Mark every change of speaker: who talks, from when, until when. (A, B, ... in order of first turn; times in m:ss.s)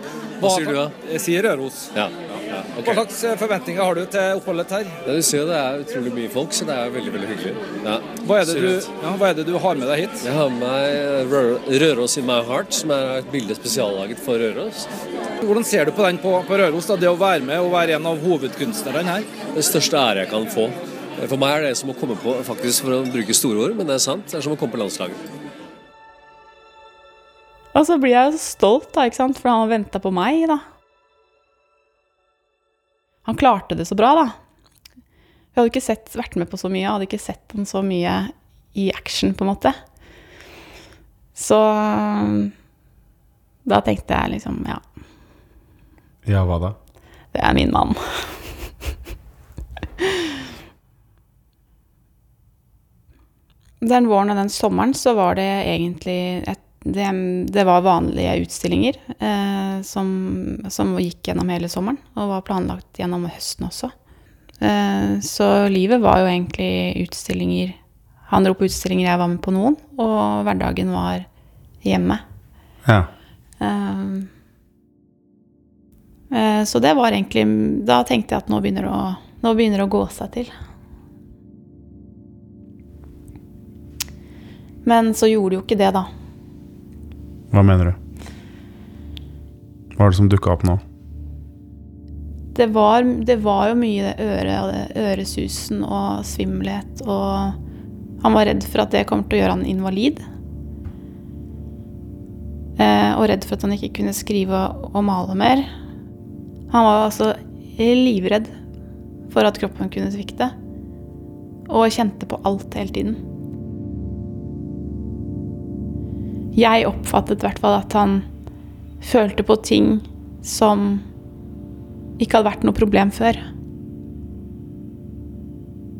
0:00.4-0:00.9 A
0:00.4-0:01.9 B
0:01.9-0:03.0 A
0:02.8-0:05.0 B
0:05.0-0:08.9 A
0:08.2-0:10.2 B
0:10.2-0:14.9 A
0:15.4-0:19.3 B
0:19.5-0:25.2 A
0:27.7-0:30.6 C
0:33.2-0:34.3 C
0:35.5-0:39.8 C
0:41.3-0:42.5 C
0:43.6-0:44.8 C
0:46.2-0:46.8 D
0:47.3-0:48.4 C
0:50.0-0:50.4 C
0:53.8-1:03.9 C
1:04.6-1:07.8 C
1:08.3-1:11.2 C
1:11.8-1:12.2 C
1:12.8-1:13.1 D
1:13.6-1:14.3 C
1:16.3-1:20.5 C
1:24.8-1:26.1 C
1:27.5-1:28.0 D
1:30.0-1:30.8 D
1:32.5-1:37.6 C
1:38.2-1:40.2 C
1:42.8-1:45.7 C
1:46.7-1:48.5 C
1:49.3-1:50.5 C
1:51.7-1:53.2 C
1:56.5-1:58.2 C
1:59.0-2:01.0 C
2:02.2-2:03.4 C